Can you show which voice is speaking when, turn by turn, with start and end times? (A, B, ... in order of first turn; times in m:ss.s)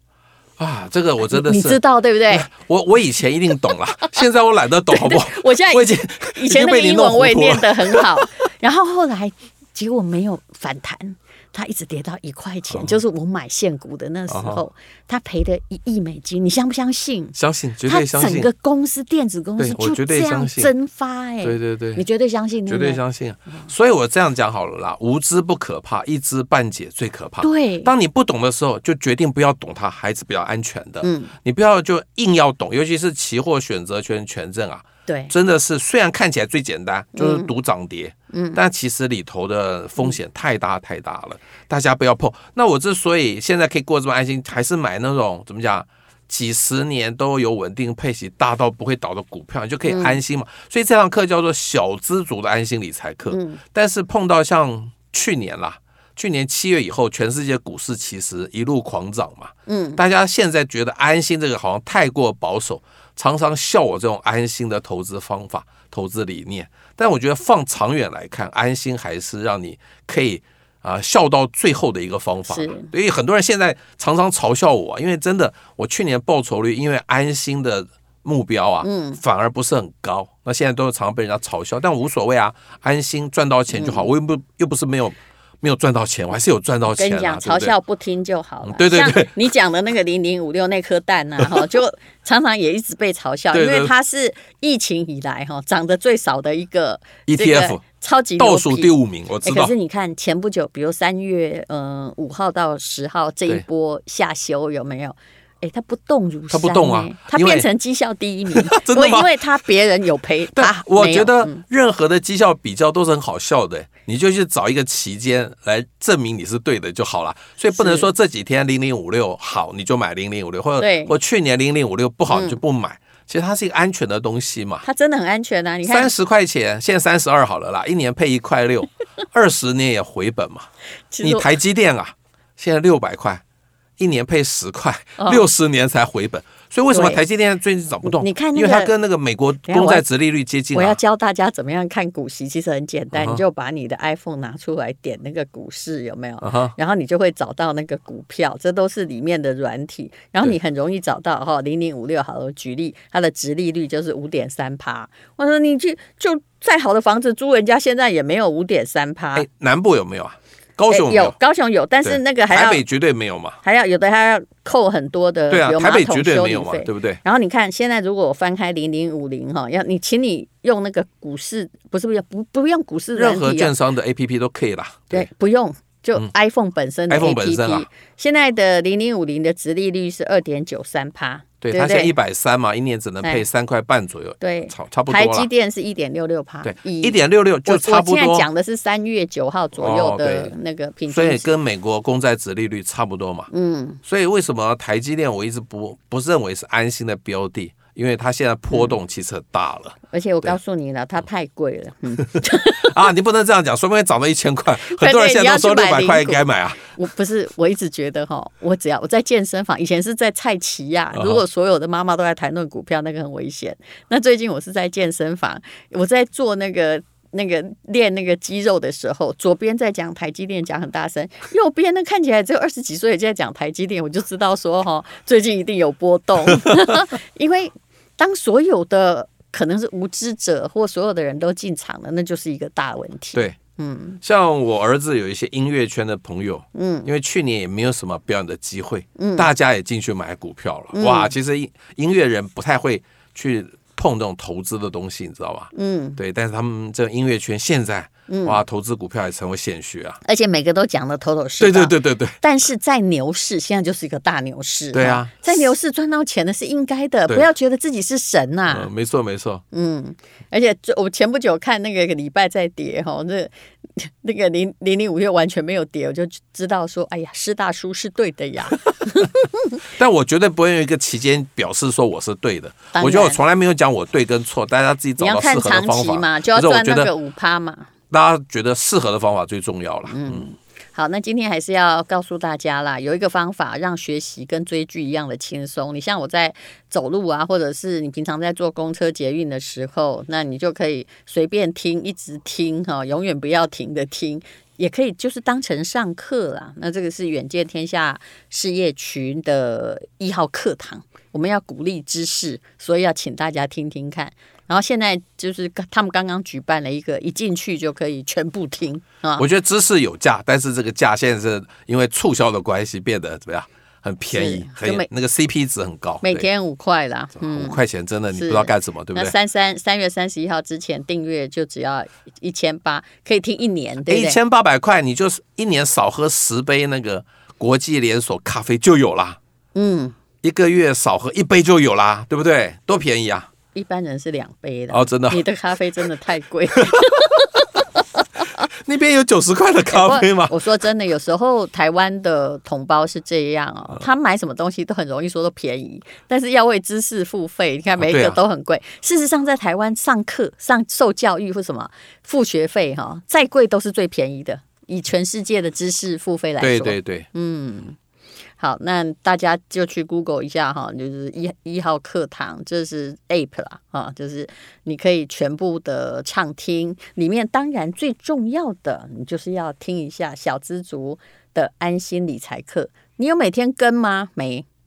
0:00.6-0:08.3 A
0:01.2-0:02.5 B
0:04.9-0:23.0 B
0:12.7-0:13.0 A
0:14.3-0:14.6 A
0:17.4-0:18.5 A
0:19.6-0:20.7 A
0:21.4-0:22.0 A
0:22.7-1:27.7 A
0:27.4-0:27.9 B
0:31.0-0:31.3 B
0:35.1-0:35.3 B
0:37.2-0:37.5 B
0:38.3-0:38.6 B
0:49.8-0:50.2 B
0:53.3-0:53.6 B
0:59.7-1:00.0 B
1:12.5-1:12.9 B
1:18.8-1:19.2 B
1:23.7-1:24.1 B
1:26.9-1:38.9 B
1:28.6-1:29.4 A
1:31.4-1:31.7 A
1:33.5-1:33.9 A
1:37.3-1:37.8 A
1:38.4-1:39.7 A
1:39.4-1:51.6 B
1:46.5-1:47.7 A
1:48.5-1:49.4 A
1:50.5-2:04.8 A
1:57.7-1:58.1 B
2:00.8-2:01.1 B
2:02.3-2:02.6 B
2:04.8-2:06.1 B
2:05.8-2:10.7 A
2:11.1-2:11.5 B
2:11.2-2:13.4 A
2:14.0-2:21.0 A
2:15.2-2:15.4 B
2:16.9-2:17.2 B
2:18.0-2:18.9 B
2:19.6-2:20.0 B
2:20.7-2:39.4 B
2:23.1-2:23.4 A
2:26.4-2:26.7 A
2:39.4-2:41.3 A
2:40.9-2:42.8 B
2:42.0-2:43.6 A
2:43.6-2:53.7 B
2:45.5-2:47.2 A
2:53.2-2:55.3 A
2:55.1-3:02.1 B
2:57.1-2:57.9 A
3:01.6-3:05.5 A
3:04.4-3:11.5 B
3:06.6-3:08.4 A
3:09.8-3:10.5 A
3:11.1-3:13.5 A
3:13.5-3:14.0 B
3:14.0-3:20.5 A
3:20.1-3:23.0 B
3:22.2-3:26.8 A
3:24.8-3:54.2 B
3:31.1-3:31.4 A
3:46.5-3:47.0 A
3:54.2-4:10.2 A
3:56.7-3:57.1 B
3:59.2-3:59.5 B
4:00.9-4:01.3 B
4:05.7-4:06.2 B
4:08.3-4:08.6 B
4:10.2-4:18.9 B
4:11.6-4:12.4 A
4:14.9-4:15.7 A
4:18.7-4:19.6 A
4:19.7-4:29.8 B
4:29.9-4:37.1 A
4:32.9-4:33.4 B
4:35.2-4:37.9 B
4:38.1-4:40.5 A
4:40.1-5:09.4 B
5:09.4-5:16.4 A
5:14.3-5:15.1 B
5:16.2-5:17.8 B
5:17.4-5:19.3 A
5:18.3-5:24.4 B
5:24.1-5:29.4 A
5:29.7-5:30.2 B
5:30.4-5:33.5 A
5:33.7-5:37.8 B
5:34.9-5:35.4 A
5:36.8-5:37.4 A
5:38.7-5:40.5 A
5:39.9-5:58.0 B
5:48.0-5:48.4 A
5:56.6-5:57.3 A
5:58.6-6:14.6 B